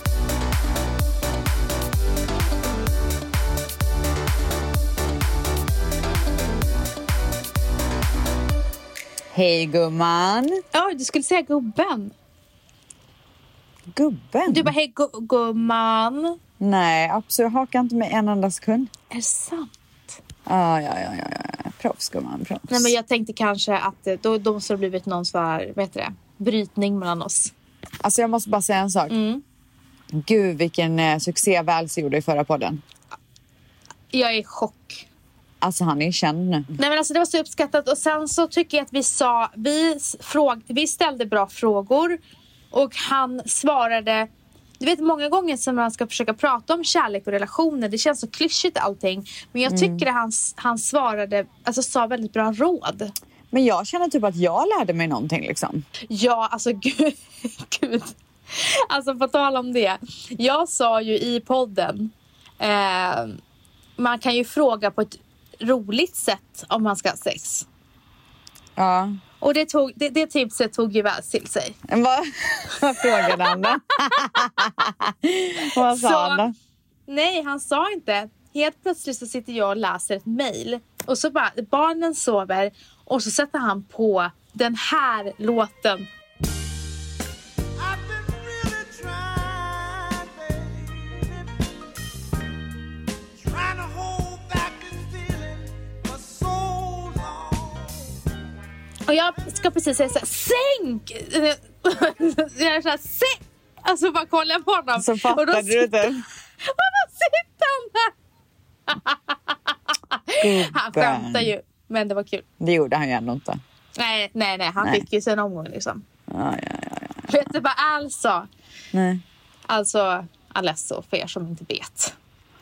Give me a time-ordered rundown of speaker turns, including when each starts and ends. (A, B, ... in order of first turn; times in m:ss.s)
0:09.3-0:10.6 A
0:10.7-0:12.1 B
0:13.9-0:14.7 A
0:14.5-0:16.4 B
0:16.6-0:18.9 A
0:19.1-0:20.2 B
0:20.5-0:22.9 A
0:22.7-0:27.5 B
0:28.0-0:29.2 A
0:29.1-0:29.4 B
0:30.1-0:32.8 A
0:34.1-0:35.1 B
0:35.6-0:36.7 A
0:36.8-0:42.2 B
0:42.7-0:44.3 B
0:44.8-0:53.1 B
0:49.7-0:50.1 A
0:53.5-0:55.8 A
0:56.1-1:03.4 B
1:04.0-1:07.7 B
1:08.8-1:09.2 A
1:09.4-1:11.8 B
1:11.9-1:16.5 A
1:13.0-1:14.7 B
1:15.8-1:16.4 B
1:17.1-1:26.1 B
1:27.8-1:31.5 C
1:33.4-1:38.1 C
1:39.1-1:48.1 B
1:45.0-1:46.2 A
1:48.9-1:52.4 B
1:50.4-1:51.5 A
1:52.6-1:53.6 A
1:54.0-1:56.0 B
1:56.3-1:57.2 A
1:57.3-1:58.5 B
1:58.9-1:59.2 A
1:59.7-2:02.1 B